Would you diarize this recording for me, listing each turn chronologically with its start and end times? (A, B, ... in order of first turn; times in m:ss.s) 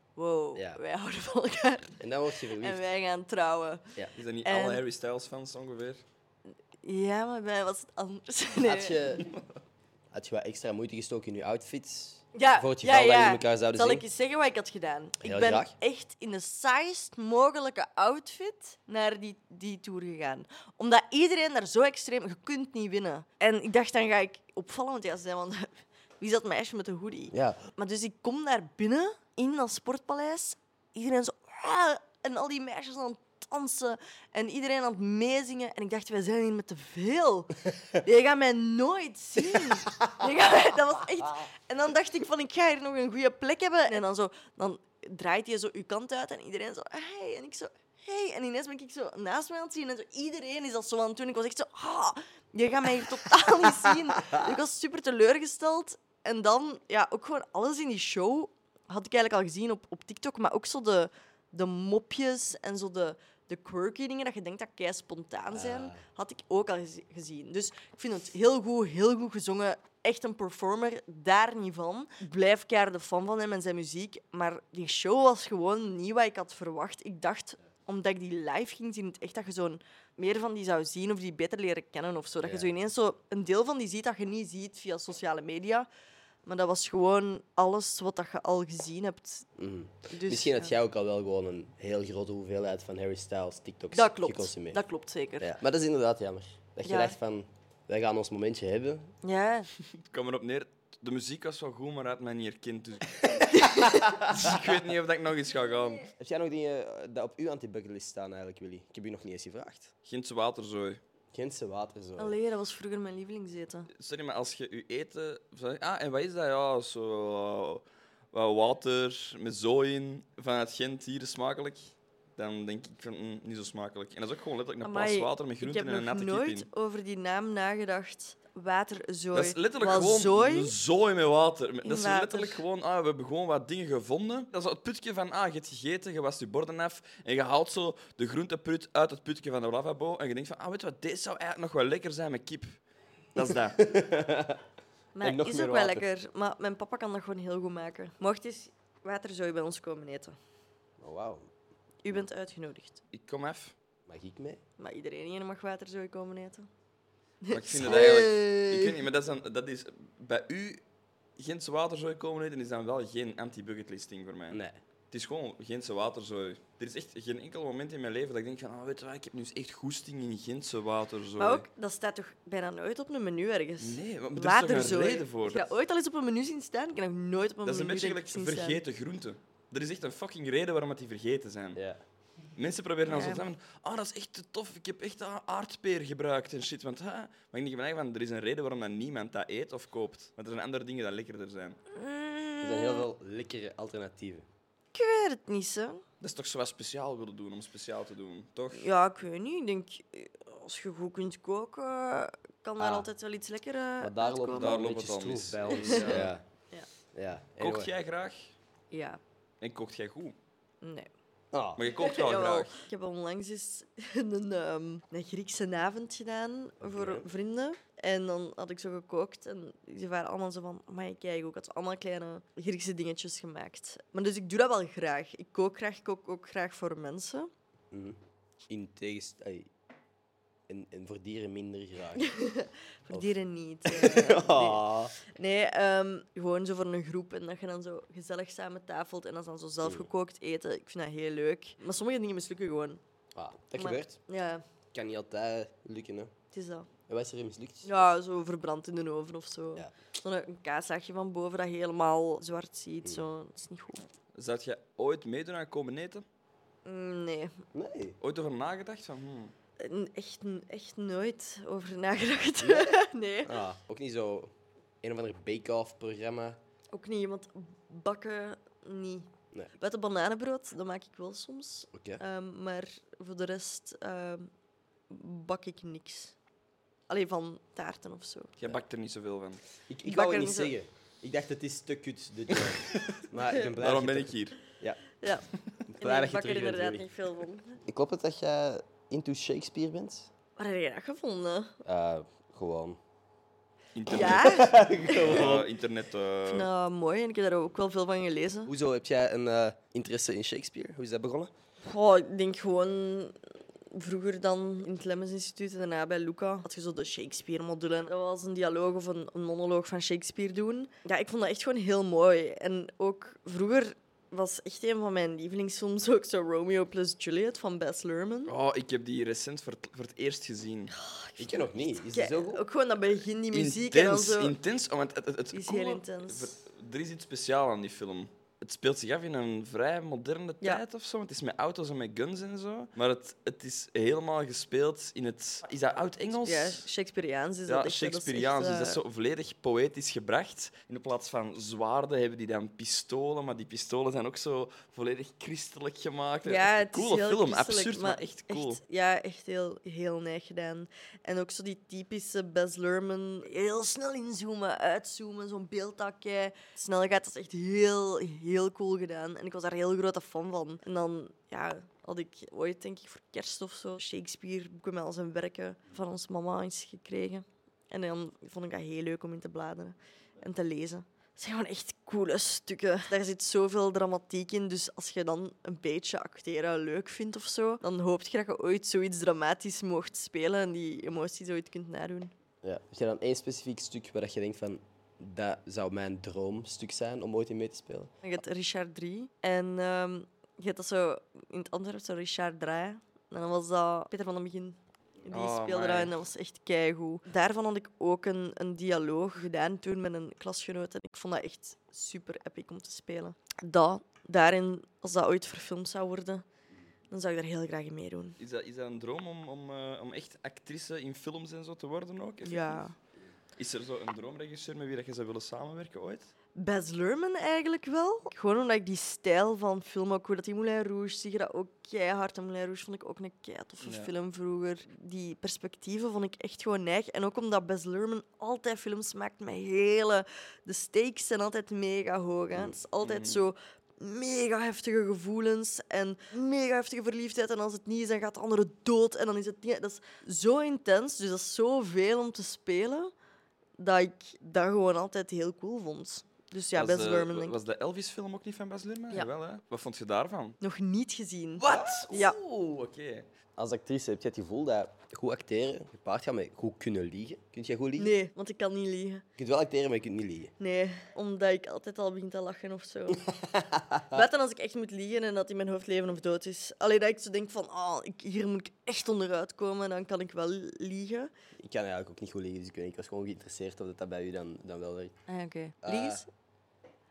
0:00.2-0:03.8 A
0:00.5-0:00.8 B
0:02.0-0:02.8 B
0:04.1-0:06.0 C
0:04.4-0:04.8 A
0:06.8-0:09.2 A
0:08.6-0:09.3 B
0:10.1-0:14.0 B
0:12.3-1:25.9 A
0:15.2-0:15.7 B
0:27.3-0:27.6 B
1:05.5-1:06.0 B
1:22.4-1:22.7 B
1:26.4-1:29.5 A
1:29.6-1:34.8 B
1:30.1-1:30.7 A
1:33.9-1:35.5 A
1:35.4-1:39.1 B
1:36.8-1:37.1 A
1:39.2-1:39.7 A
1:39.9-1:43.5 C
1:43.5-1:44.2 A
1:44.3-1:46.1 C
1:46.2-1:49.9 B
1:50.0-1:51.0 C
1:51.3-1:52.4 B
1:52.2-1:53.9 A
1:53.9-2:06.7 C
2:04.8-2:10.7 A
2:09.3-2:22.8 C
2:11.8-2:12.6 A
2:23.3-2:23.8 C
2:23.8-2:24.6 B
2:25.1-2:30.4 A
2:25.2-2:26.1 B
2:31.0-2:31.5 B
2:32.0-2:33.0 A
2:33.1-2:33.7 C
2:34.1-2:34.6 B
2:34.8-2:36.7 A
2:37.4-2:38.9 A
2:37.5-2:40.8 C
2:41.4-2:44.6 C
2:44.5-2:44.8 B
2:45.1-2:51.7 C
2:51.4-2:58.8 A
2:53.8-2:55.7 C
2:57.6-3:01.8 C
3:02.5-3:11.8 C
3:03.1-3:03.4 A
3:11.9-3:13.0 A
3:12.6-3:14.4 B
3:14.9-3:16.0 A
3:16.2-3:18.9 C
3:18.8-3:24.8 A
3:22.8-3:23.1 B
3:24.0-3:26.4 B
3:24.5-3:26.3 C
3:25.7-3:26.9 A
3:27.1-3:27.9 B
3:27.6-3:28.5 C
3:28.9-3:29.2 A
3:29.6-3:30.4 C
3:30.8-3:31.1 A
3:31.5-3:31.8 B
3:31.8-3:32.8 C
3:31.9-3:47.5 A
3:36.8-3:37.3 B
3:47.9-3:48.2 B
3:48.7-3:49.7 B
3:50.7-3:52.3 B
3:52.2-4:03.0 A
3:53.8-3:55.1 B
3:59.8-4:00.1 B
4:03.3-4:04.2 B
4:03.8-4:04.6 A
4:04.9-4:06.3 B
4:06.5-4:06.9 A
4:07.1-4:07.9 B
4:07.8-4:14.1 A
4:14.3-4:16.2 C
4:16.8-4:17.6 A
4:17.7-4:18.2 B
4:18.2-4:19.5 C
4:19.8-4:23.5 A
4:22.6-4:22.9 B
4:23.4-4:26.6 B
4:26.9-4:34.5 A
4:31.9-4:32.2 B
4:35.1-4:36.3 A
4:37.1-4:38.5 A
4:38.6-4:39.6 C
4:39.9-4:45.0 B
4:40.0-4:40.7 A
4:42.9-4:44.6 C
4:45.2-4:45.5 A
4:45.9-4:47.1 B
4:46.0-4:47.8 A
4:47.9-4:50.3 B
4:50.6-4:51.7 A
4:51.8-4:53.0 B
4:53.9-4:56.7 C
4:54.0-4:55.4 A
4:54.2-4:55.7 B
4:56.5-4:58.7 A
4:58.6-5:01.5 B
5:01.8-5:03.3 A
5:03.9-5:18.5 A
5:18.4-5:20.9 C
5:21.0-5:24.5 A
5:21.4-5:22.6 B
5:23.5-5:36.9 C
5:25.5-5:26.5 A
5:36.4-5:39.0 A
5:37.7-5:48.8 C
5:46.4-6:22.3 A
6:22.6-6:28.1 B
6:28.2-6:46.4 A
6:35.3-6:36.1 C
6:47.1-6:48.4 A
6:48.4-6:52.9 C
6:52.4-6:52.9 A
6:53.6-6:56.3 C
6:56.6-7:23.1 A
7:03.8-7:04.1 C
7:13.0-7:13.4 C
7:23.8-7:27.5 A
7:26.7-7:30.6 C
7:30.6-7:32.4 A
7:31.6-7:33.3 C
7:33.6-7:38.1 B
7:38.0-7:39.2 A
7:39.4-7:40.5 B
7:40.6-7:43.3 A
7:43.3-7:44.2 B
7:44.1-7:51.3 A
7:51.6-7:55.2 B
7:55.3-7:56.3 A
7:55.8-7:56.2 B